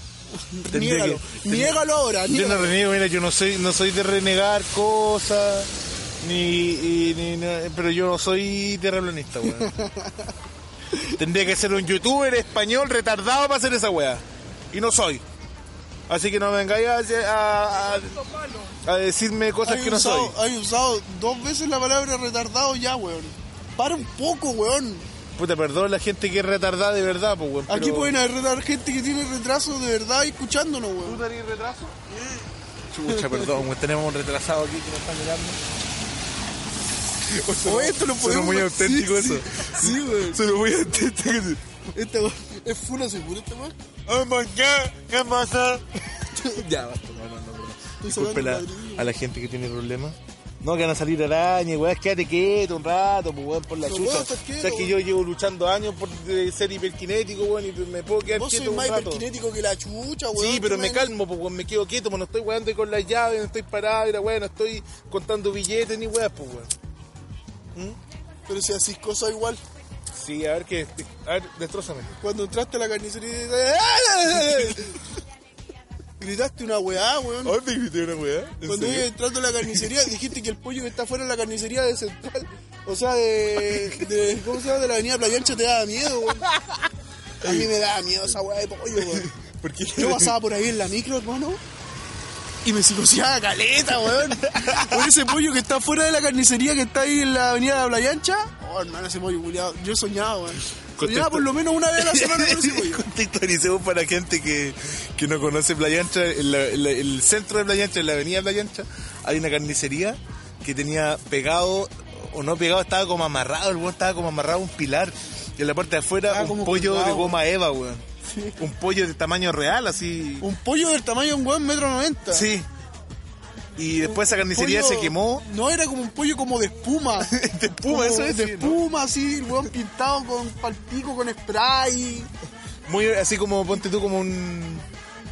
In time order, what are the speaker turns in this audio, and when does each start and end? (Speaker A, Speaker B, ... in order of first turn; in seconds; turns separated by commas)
Speaker A: 0.3-2.8, Speaker B: 0.7-9.7, Speaker A: 9.4-10.3, Speaker B: 11.1-15.2, Speaker B: 16.1-20.4, Speaker A: 19.6-25.1, Speaker B: 25.4-28.1, Speaker A: 27.7-31.2, Speaker B: 31.0-32.0, Speaker B: 32.9-35.6, Speaker A: 33.1-33.5, Speaker B: 37.3-41.6, Speaker A: 37.6-40.4, Speaker A: 41.9-43.7, Speaker B: 44.0-45.9, Speaker A: 46.3-46.6, Speaker B: 46.4-59.2, Speaker A: 48.0-49.1, Speaker A: 53.9-54.9, Speaker A: 58.3-61.1, Speaker B: 60.3-66.7, Speaker A: 68.5-69.6, Speaker B: 70.1-72.1, Speaker A: 72.2-75.0, Speaker B: 74.3-74.8, Speaker A: 76.2-77.6, Speaker B: 77.4-79.1, Speaker A: 78.6-86.5, Speaker B: 83.6-84.1, Speaker B: 86.3-86.9, Speaker A: 87.4-89.3, Speaker B: 87.4-87.7, Speaker B: 89.0-90.3, Speaker A: 90.0-91.6, Speaker A: 92.6-103.0, Speaker B: 94.0-95.2, Speaker B: 101.0-118.0, Speaker A: 116.3-117.4, Speaker A: 118.2-118.6, Speaker B: 118.6-120.5, Speaker A: 120.4-122.5, Speaker B: 122.3-122.7, Speaker B: 123.8-125.4, Speaker A: 124.1-127.3, Speaker B: 127.2-128.8, Speaker A: 127.9-132.3, Speaker B: 132.8-134.8